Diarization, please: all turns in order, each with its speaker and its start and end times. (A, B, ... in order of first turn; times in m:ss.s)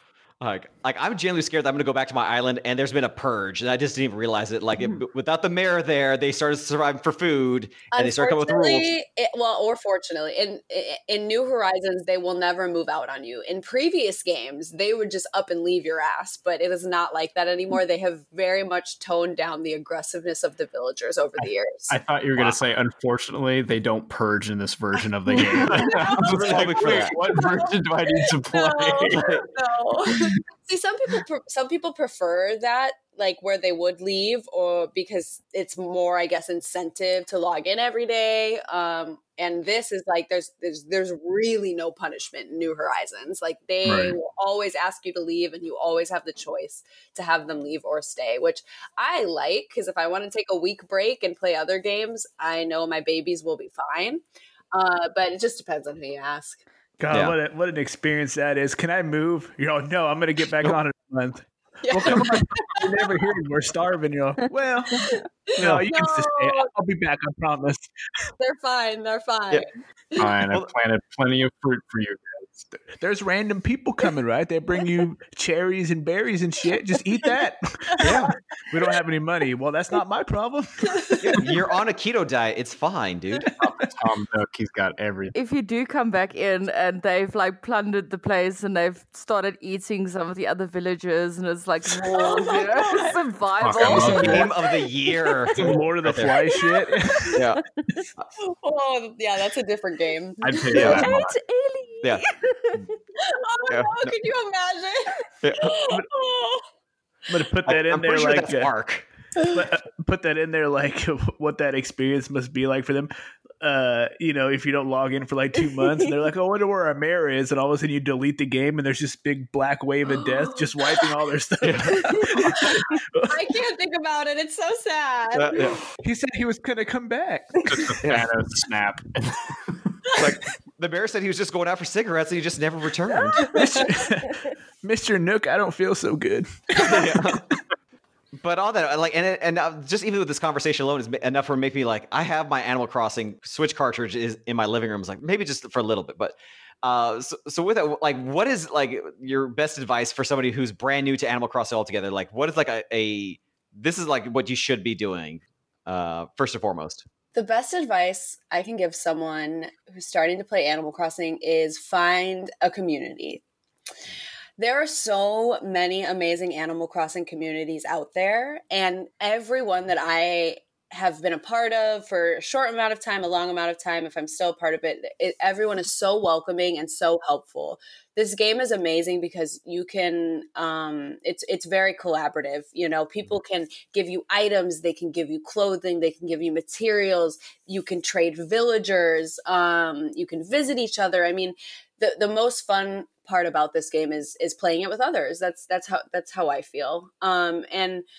0:00.4-0:08.9 A
0:07.9-0:22.0 B
0:21.4-0:29.5 C
0:25.4-0:54.2 B
0:25.6-0:27.2 A
0:30.1-0:30.4 C
0:43.8-0:44.2 C
0:54.7-0:56.6 B
0:57.0-1:07.9 D
0:57.1-0:57.4 A
1:01.8-1:03.2 B
1:05.0-1:06.7 B
1:08.4-1:10.3 B
1:10.2-1:12.7 C
1:13.0-1:18.1 D
1:18.0-1:18.3 A
1:18.7-1:21.4 D
1:21.0-1:21.5 B
1:21.2-1:23.5 A
1:23.6-1:25.4 C
1:25.3-1:34.5 E
1:32.0-1:33.2 B
1:33.6-1:34.5 C
1:33.8-1:36.4 A
1:34.0-1:34.5 B
1:35.6-1:37.4 D
1:36.6-1:37.4 E
1:37.4-1:37.6 A
1:38.4-1:41.0 B
1:40.4-1:41.4 C
1:40.7-1:41.0 A
1:40.8-1:42.9 E
1:42.0-1:42.9 A
1:43.2-1:46.6 B
1:43.7-1:44.2 A
1:45.4-1:45.8 A
1:47.3-1:48.7 D
1:47.7-1:49.1 A
1:49.5-1:53.1 D
1:53.6-2:03.5 D
2:01.6-2:02.7 A
2:02.2-2:05.8 B
2:05.3-2:05.7 A
2:06.0-2:08.0 D
2:07.7-2:09.9 C
2:08.0-2:08.3 A
2:10.1-2:13.5 A
2:13.4-2:13.9 B
2:13.4-2:17.4 D
2:16.8-2:17.4 A
2:18.4-2:37.0 A
2:37.3-2:43.4 B
2:44.6-3:18.0 B